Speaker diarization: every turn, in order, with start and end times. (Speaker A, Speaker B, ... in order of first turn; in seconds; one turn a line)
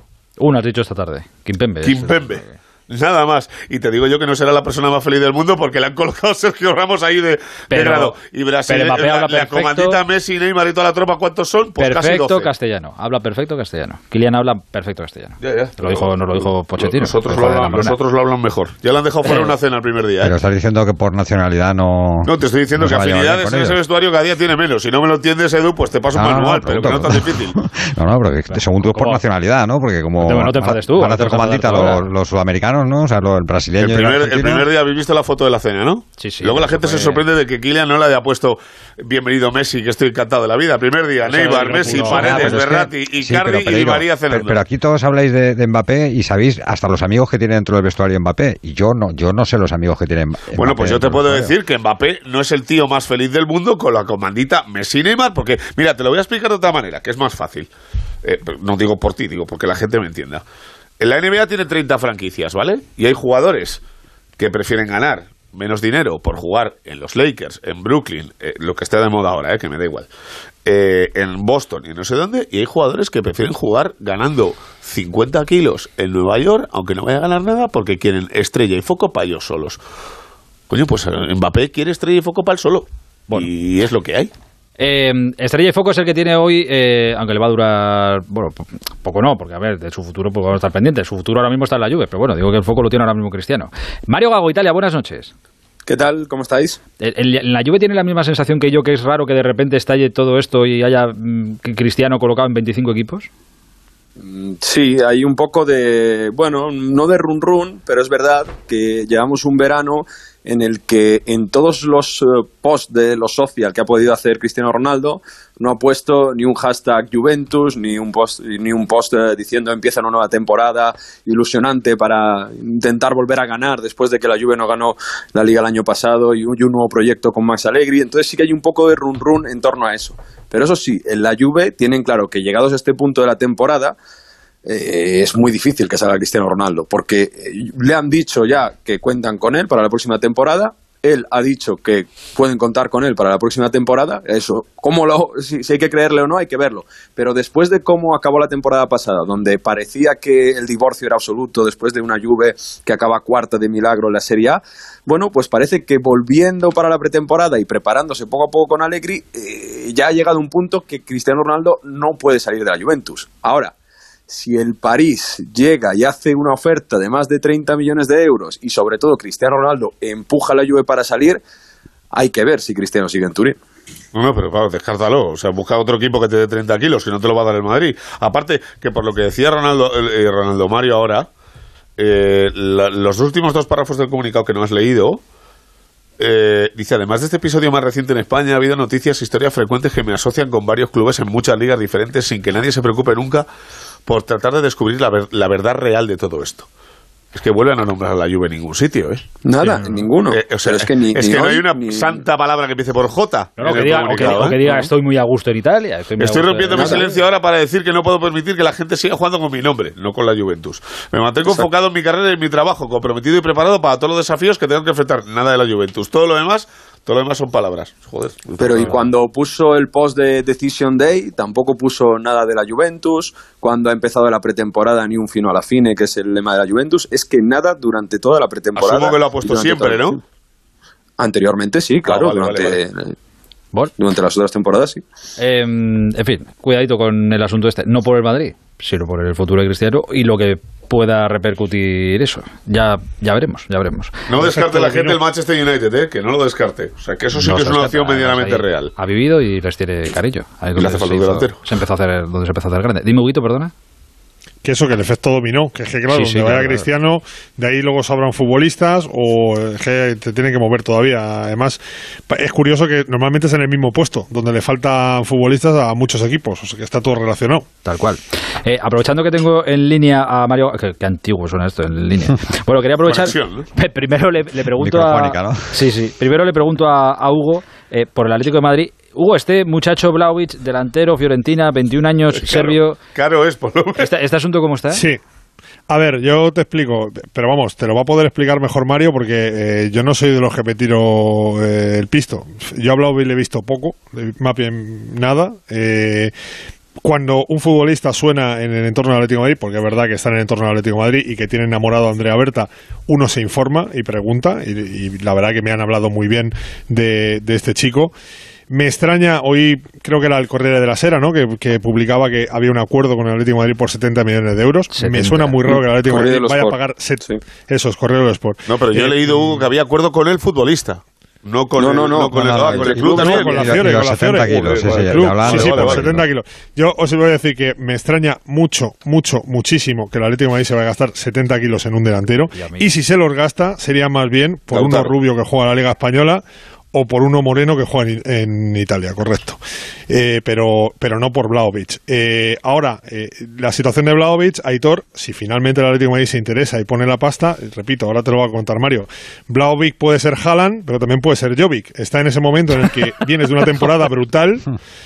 Speaker A: 0.4-2.6
Speaker B: 1.8-12.5
Speaker A: 7.7-8.2
Speaker A: 8.7-10.0
Speaker A: 11.8-18.0
Speaker B: 15.4-20.4
Speaker A: 19.2-19.5
Speaker C: 20.2-23.8
Speaker B: 22.2-27.6
Speaker C: 26.1-34.7
Speaker A: 28.5-29.2
Speaker A: 30.2-32.1
Speaker B: 33.8-44.6
Speaker A: 36.2-37.2
Speaker A: 41.3-42.6
Speaker D: 41.3-42.5
Speaker C: 42.1-51.5
Speaker B: 50.5-57.7
Speaker B: 58.2-60.4
Speaker B: 61.0-63.8
Speaker B: 64.4-70.1
Speaker B: 70.7-79.8
Speaker B: 80.7-84.3
Speaker A: 84.8-95.3
Speaker E: 95.9-96.8
Speaker A: 97.0-103.3
Speaker E: 104.2-134.0
Speaker E: 134.7-163.7
Speaker E: 164.3-171.4
Speaker E: 172.1-173.6
Speaker B: 174.1-181.3
Speaker B: 182.0-185.2
Speaker B: 186.2-193.5
Speaker B: 194.1-196.7
Speaker B: 197.3-199.2
Speaker E: 199.4-202.2
Speaker B: 200.3-204.6
Speaker A: 203.6-207.2
Speaker E: 204.2-204.8
Speaker B: 206.2-219.1
Speaker E: 206.7-207.1
Speaker E: 218.6-230.2
Speaker B: 228.8-230.2
Speaker E: 231.2-233.1
Speaker B: 232.0-232.8
Speaker E: 234.0-235.0
Speaker A: 235.4-245.2
Speaker B: 244.3-248.9
Speaker A: 247.3-253.7
Speaker B: 250.8-251.6
Speaker D: 254.6-267.7
Speaker A: 256.1-256.9
Speaker A: 267.8-283.0
Speaker B: 273.1-273.7
Speaker C: 274.8-275.8
Speaker B: 282.3-284.1
Speaker A: 284.0-285.0
Speaker D: 284.9-285.2
Speaker D: 285.9-296.3
Speaker D: 297.0-308.1
Speaker D: 308.7-319.6
Speaker A: 314.9-315.6
Speaker E: 315.7-317.4
Speaker B: 318.7-323.8
Speaker E: 321.8-323.1
Speaker C: 322.4-326.2
Speaker D: 323.0-354.7
Speaker B: 324.5-326.1
Speaker A: 332.5-332.9
Speaker B: 334.7-335.1